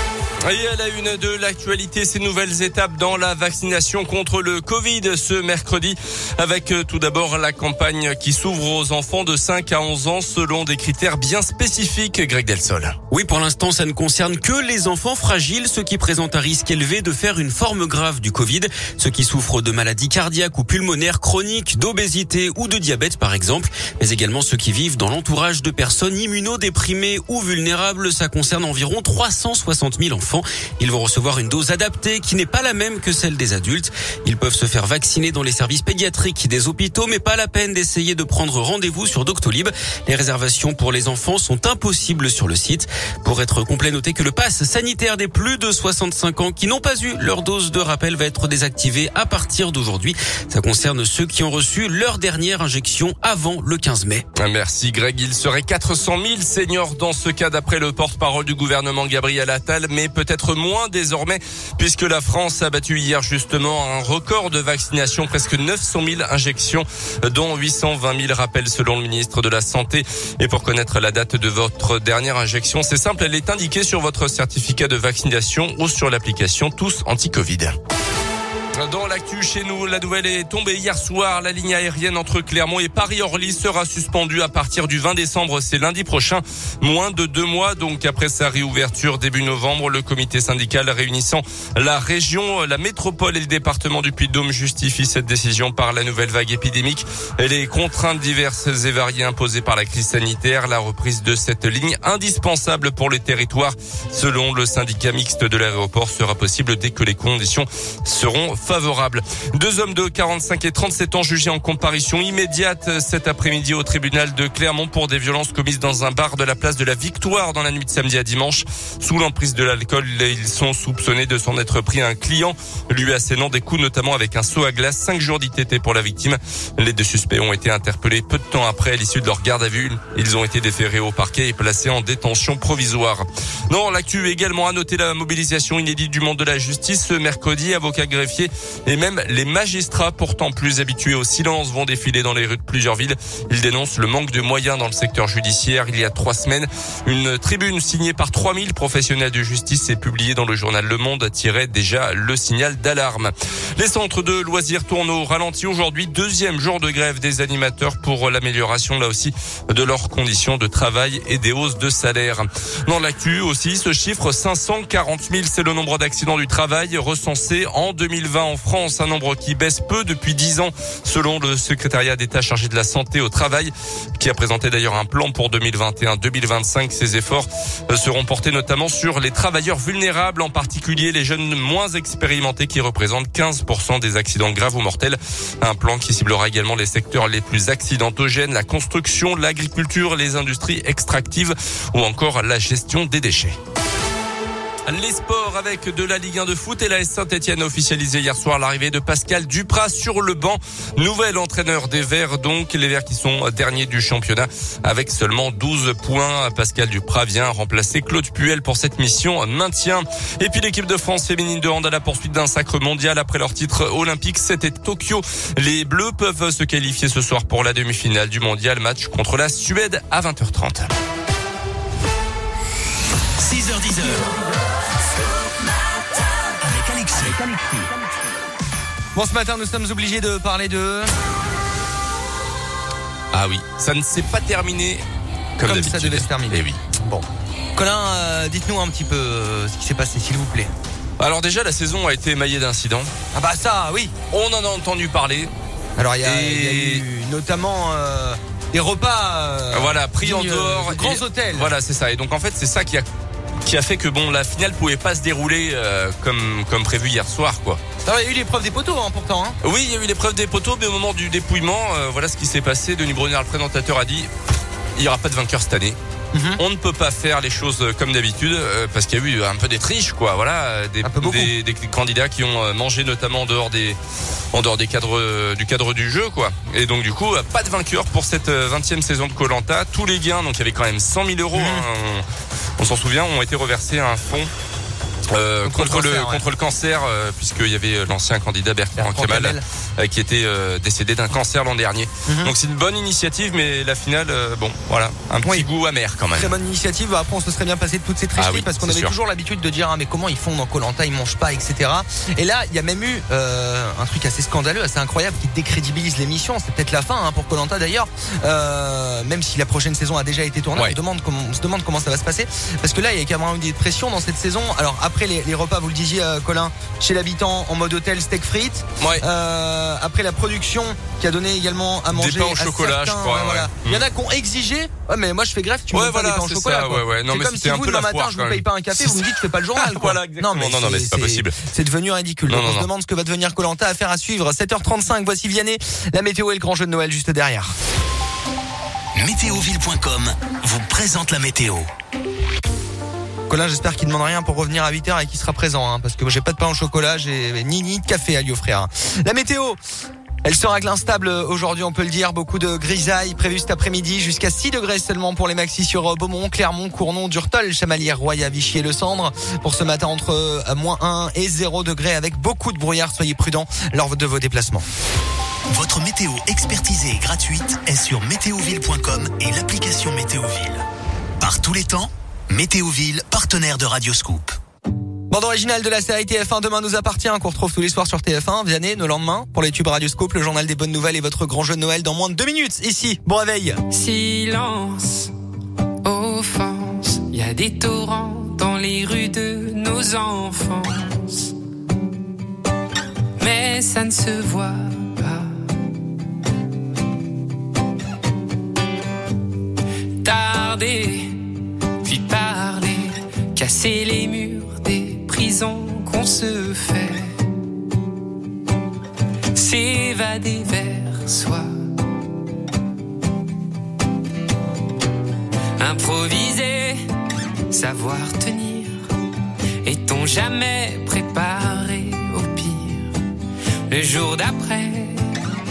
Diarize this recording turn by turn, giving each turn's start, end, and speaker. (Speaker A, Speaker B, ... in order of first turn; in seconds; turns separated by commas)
Speaker A: 0.5-13.0, Speaker B: 13.1-54.3, Speaker A: 54.4-77.8, Speaker A: 78.8-193.6, Speaker A: 194.9-220.9, Speaker C: 223.4-224.3, Speaker C: 226.6-227.9, Speaker D: 229.2-231.1, Speaker A: 233.3-235.0, Speaker A: 235.6-236.8, Speaker D: 235.6-240.7, Speaker A: 241.2-243.1, Speaker D: 243.3-244.1, Speaker A: 244.3-245.5, Speaker D: 246.0-251.7, Speaker A: 246.2-247.0, Speaker A: 249.7-253.1, Speaker A: 253.7-257.8, Speaker D: 258.1-259.6, Speaker A: 259.6-264.3, Speaker A: 265.0-266.0, Speaker D: 266.3-266.6, Speaker A: 266.6-274.0, Speaker D: 271.0-271.5, Speaker A: 274.5-282.2, Speaker D: 281.5-281.9, Speaker A: 282.8-284.5, Speaker A: 285.3-296.6, Speaker D: 285.6-286.5, Speaker D: 289.0-289.6, Speaker D: 292.3-292.5, Speaker D: 296.3-337.7, Speaker A: 298.4-299.1, Speaker A: 322.1-324.0, Speaker A: 325.9-331.6, Speaker A: 332.5-332.9, Speaker C: 339.1-341.9, Speaker D: 343.5-349.8, Speaker D: 350.4-364.9, Speaker C: 365.7-370.9, Speaker C: 371.4-374.6, Speaker D: 375.3-383.8, Speaker E: 383.9-385.3, Speaker E: 386.1-391.5, Speaker E: 393.4-395.5, Speaker E: 400.2-407.4, Speaker E: 409.5-411.7, Speaker E: 415.8-417.0, Speaker E: 417.7-419.1, Speaker E: 419.8-423.1, Speaker E: 423.9-425.4